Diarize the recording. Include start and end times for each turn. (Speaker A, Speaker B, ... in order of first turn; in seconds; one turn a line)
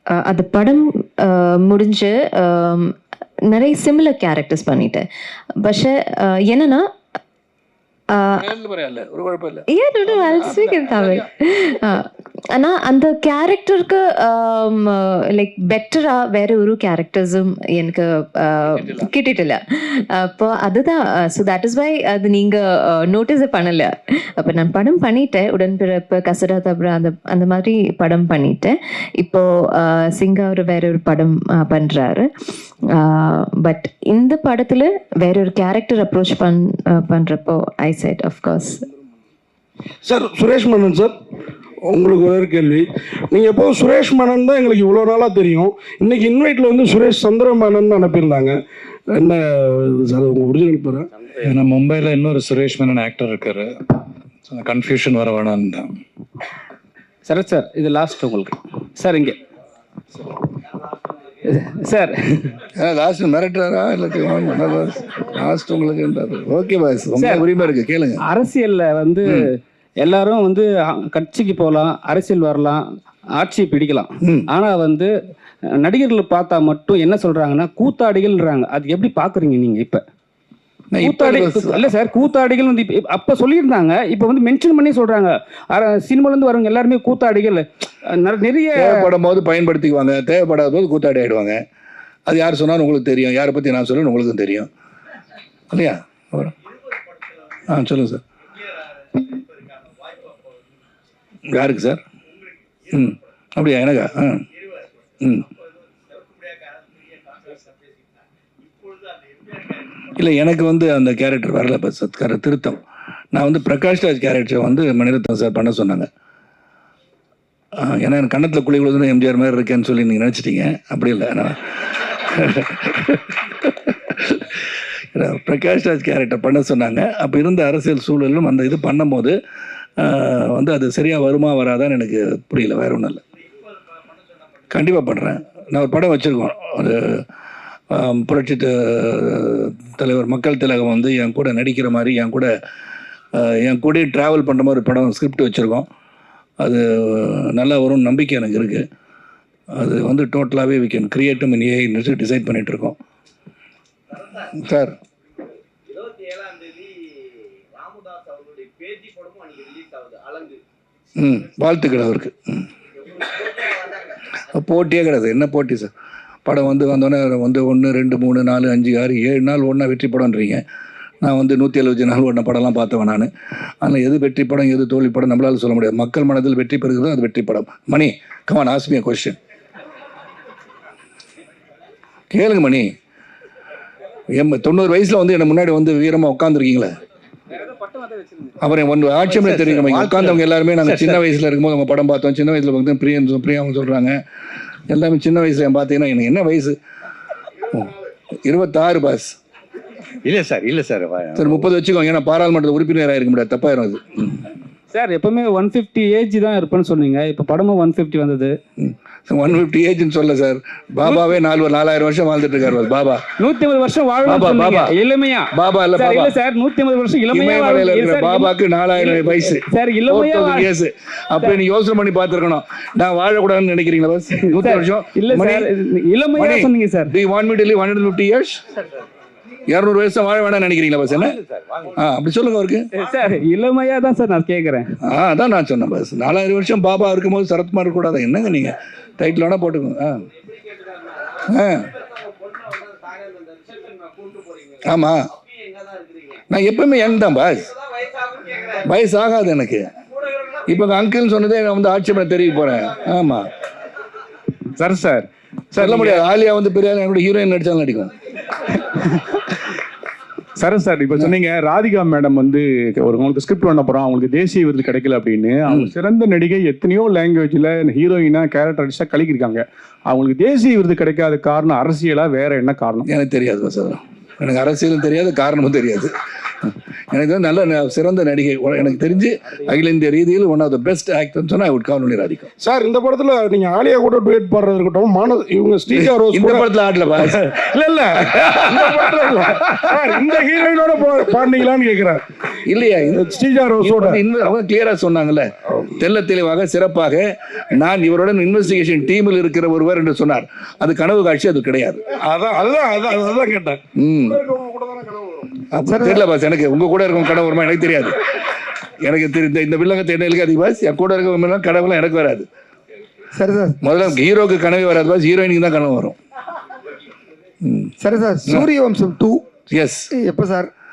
Speaker A: 0.3-2.9
Speaker A: 3.5-5.0
Speaker A: 5.6-6.8
Speaker B: 8.4-11.3
Speaker A: 9.8-11.2
Speaker C: 10.1-10.9
Speaker A: 12.6-19.6
Speaker B: 18.6-19.1
Speaker A: 20.2-32.2
Speaker A: 33.0-38.7
Speaker D: 40.1-41.1
Speaker D: 41.9-48.5
Speaker D: 49.2-51.1
Speaker E: 51.4-53.9
Speaker E: 54.5-56.0
Speaker C: 57.3-59.4
Speaker C: 61.5-62.6
Speaker B: 62.8-68.2
Speaker C: 67.2-67.5
Speaker C: 68.3-69.5
Speaker C: 70.0-72.8
Speaker C: 73.4-75.1
Speaker B: 74.2-74.5
Speaker C: 75.8-80.0
Speaker B: 80.9-81.9
Speaker C: 81.0-89.1
Speaker B: 88.8-91.6
Speaker B: 92.3-94.7
Speaker B: 95.7-96.5
Speaker B: 97.7-98.2
Speaker B: 101.5-102.0
Speaker B: 102.9-104.5
Speaker B: 105.2-105.5
Speaker B: 110.2-112.8
Speaker B: 113.3-116.1
Speaker B: 117.8-124.6
Speaker B: 125.2-129.4
Speaker B: 130.0-133.2
Speaker B: 134.7-137.2
Speaker B: 137.9-142.5
Speaker B: 143.3-145.9
Speaker B: 146.6-148.8
Speaker B: 149.8-153.0
Speaker B: 154.6-155.0
Speaker F: 155.9-160.6
Speaker B: 161.2-162.7
Speaker B: 164.5-165.9
Speaker B: 166.5-170.6
Speaker B: 171.2-173.3
Speaker B: 173.8-179.4
Speaker B: 182.3-182.9
Speaker B: 184.3-186.9
Speaker A: 187.6-188.5
Speaker B: 188.6-194.2
Speaker G: 189.3-191.2
Speaker B: 194.9-196.8
Speaker B: 198.4-199.4
Speaker G: 200.2-201.6
Speaker B: 201.3-204.5
Speaker C: 205.0-208.5
Speaker A: 206.4-208.4
Speaker B: 208.8-213.3
Speaker C: 213.4-215.4
Speaker B: 214.2-214.9
Speaker A: 215.0-215.4
Speaker B: 215.5-216.4
Speaker C: 216.0-218.3
Speaker B: 217.3-225.7
Speaker C: 219.7-220.7
Speaker C: 224.6-227.1
Speaker B: 226.3-228.6
Speaker B: 229.7-231.4
Speaker G: 231.1-231.9
Speaker B: 232.0-232.8
Speaker C: 233.0-234.8
Speaker A: 233.4-234.7
Speaker B: 235.1-240.2
Speaker B: 241.5-241.9
Speaker F: 242.6-244.4
Speaker B: 244.8-245.3
Speaker F: 245.5-246.4
Speaker B: 246.5-247.7
Speaker B: 248.8-249.9
Speaker B: 250.7-253.5
Speaker H: 254.8-256.2
Speaker B: 255.8-258.1
Speaker H: 258.9-259.5
Speaker H: 260.6-273.1
Speaker B: 273.1-276.1
Speaker B: 276.6-282.5
Speaker D: 282.6-286.6
Speaker B: 285.9-287.5
Speaker D: 287.2-292.2
Speaker B: 289.3-289.6
Speaker B: 292.7-293.2
Speaker D: 293.2-294.2
Speaker B: 293.8-302.0
Speaker D: 302.3-303.8
Speaker B: 304.0-304.4
Speaker D: 304.3-305.6
Speaker B: 305.7-308.2
Speaker I: 305.8-306.2
Speaker B: 309.0-312.5
Speaker I: 313.4-313.8
Speaker B: 313.8-316.2
Speaker B: 317.6-317.9
Speaker I: 318.0-319.4
Speaker B: 319.7-320.1
Speaker I: 320.1-320.7